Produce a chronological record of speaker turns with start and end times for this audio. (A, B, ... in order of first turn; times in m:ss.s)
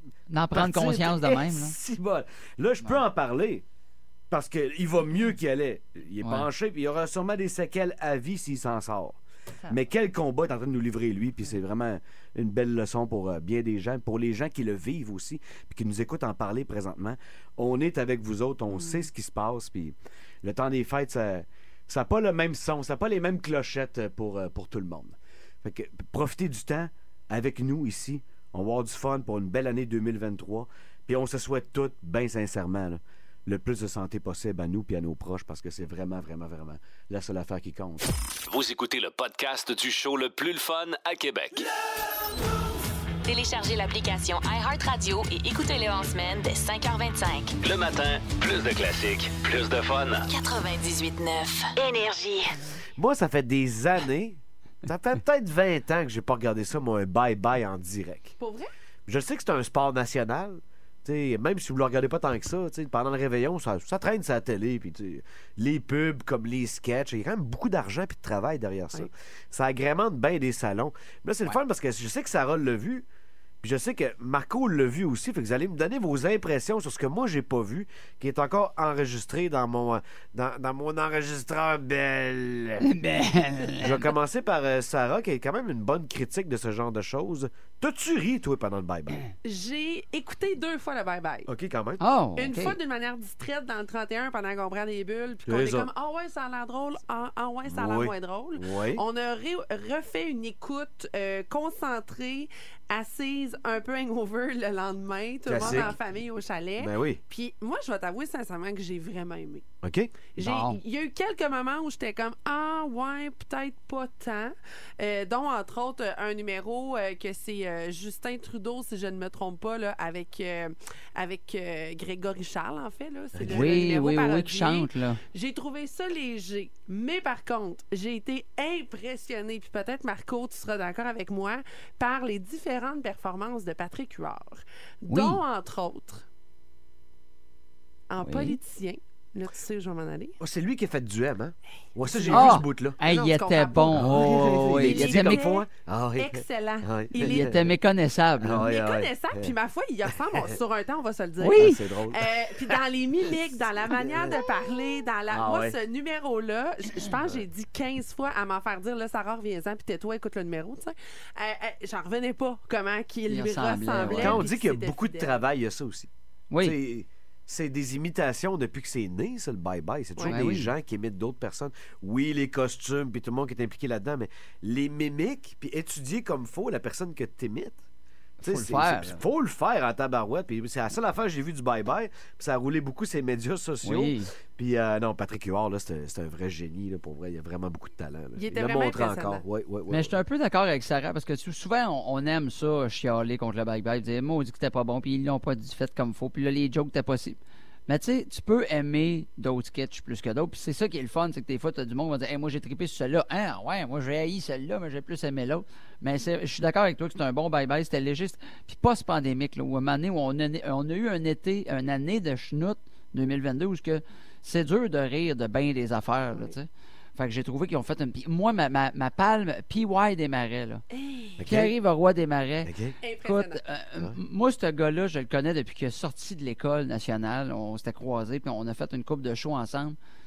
0:00.3-0:01.8 A
0:00.5-0:03.6 B
0:04.3-0:38.1 B
0:06.2-0:06.5 A
0:38.5-0:41.7 C
0:43.3-0:47.6 D
0:47.6-0:50.3 C
0:50.3-0:52.6 D
0:53.0-0:58.4 B
0:58.4-0:58.7 E
0:59.1-1:13.1 B
1:13.6-1:22.9 B
1:22.8-1:24.0 A
1:23.8-1:29.2 B
1:29.4-1:31.5 E
1:31.5-1:32.0 B
1:32.0-1:32.8 A
1:32.4-1:49.6 E
1:35.5-1:35.9 B
1:37.7-1:39.0 B
1:45.5-1:46.0 B
1:45.6-1:45.9 A
1:46.8-1:47.2 B
1:49.8-1:50.1 B
1:50.4-2:16.2 E
1:50.4-1:50.8 A
2:03.4-2:03.9 B
2:03.5-2:05.2 A
2:15.1-2:15.4 A
2:18.1-2:20.4 E
2:18.2-2:18.6 A
2:20.4-2:23.0 B
2:22.0-2:27.6 E
2:22.3-2:25.4 A
2:23.9-2:27.7 B
2:27.2-2:28.7 A
2:28.4-2:29.5 B
2:28.6-2:45.4 E
2:31.4-2:31.8 A
2:31.5-2:32.8 B
2:33.9-2:34.4 B
2:35.3-2:35.8 B
2:43.3-2:44.4 A
2:44.1-2:57.8 B
2:46.5-2:46.8 A
2:50.3-2:50.7 A
2:58.4-2:59.2 A
2:58.4-3:10.2 B
3:03.8-3:04.3 A
3:08.4-3:09.4 E
3:09.9-3:40.8 A
3:40.9-3:41.4 E
3:41.4-3:41.7 B
3:41.5-3:42.7 A
3:42.6-3:43.0 B
3:43.0-3:43.6 E
3:43.2-3:50.0 A